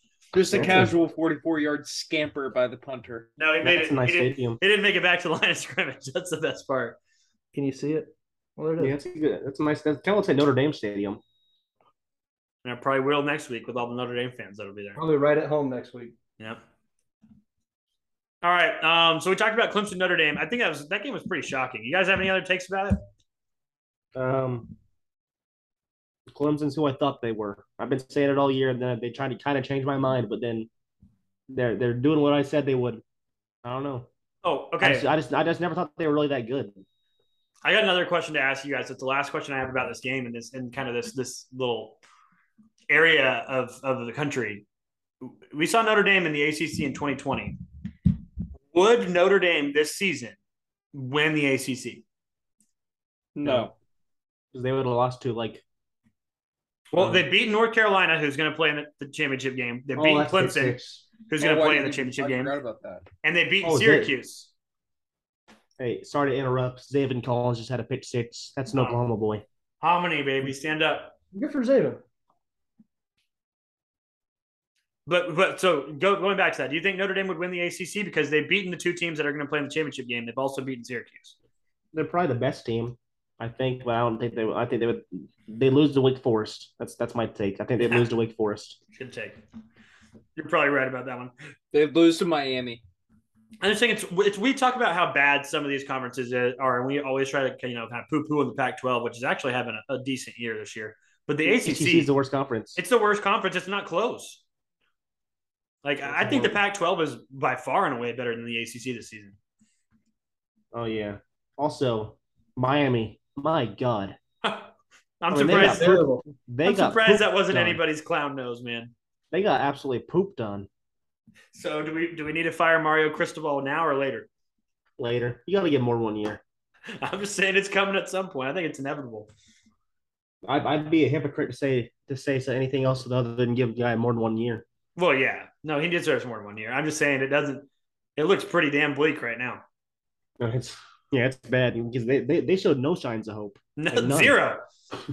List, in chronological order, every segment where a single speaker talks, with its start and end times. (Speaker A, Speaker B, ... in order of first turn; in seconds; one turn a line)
Speaker A: 0.3-3.3
Speaker B: 0.5-0.9
Speaker C: 3.4-7.0
Speaker B: 3.6-4.6
Speaker D: 7.5-8.9
Speaker B: 8.8-11.2
Speaker C: 12.6-15.0
Speaker D: 15.0-16.2
Speaker C: 18.4-23.0
Speaker B: 24.1-24.7
Speaker B: 26.3-30.7
Speaker B: 31.5-33.0
Speaker B: 33.6-34.1
Speaker C: 34.4-35.1
Speaker B: 34.8-36.8
Speaker C: 37.6-42.0
Speaker C: 42.9-44.6
Speaker C: 45.2-47.6
Speaker C: 48.7-50.4
Speaker C: 50.9-52.0
Speaker A: 53.4-53.7
Speaker B: 53.4-53.7
Speaker B: 54.5-55.6
Speaker C: 56.9-62.6
Speaker B: 57.0-57.2
Speaker B: 60.0-61.0
Speaker A: 61.4-63.1
Speaker C: 63.2-64.5
Speaker B: 63.6-64.1
Speaker B: 65.8-69.4
Speaker C: 68.8-69.0
Speaker C: 69.8-71.2
Speaker D: 71.3-72.0
Speaker C: 75.1-81.4
Speaker B: 81.9-88.8
Speaker C: 87.8-88.1
Speaker C: 88.9-89.4
Speaker C: 90.4-91.3
Speaker A: 91.7-92.8
Speaker C: 93.6-102.1
Speaker B: 101.5-102.8
Speaker C: 102.8-104.4
Speaker C: 105.8-109.4
Speaker B: 106.0-106.6
Speaker B: 110.7-114.2
Speaker C: 114.4-116.1
Speaker B: 115.3-117.8
Speaker D: 115.5-116.2
Speaker C: 116.6-118.9
Speaker B: 119.3-120.7
Speaker C: 121.5-124.3
Speaker B: 125.0-126.4
Speaker C: 127.0-129.3
Speaker B: 130.4-134.6
Speaker C: 135.0-139.6
Speaker B: 140.4-144.4
Speaker C: 143.8-144.6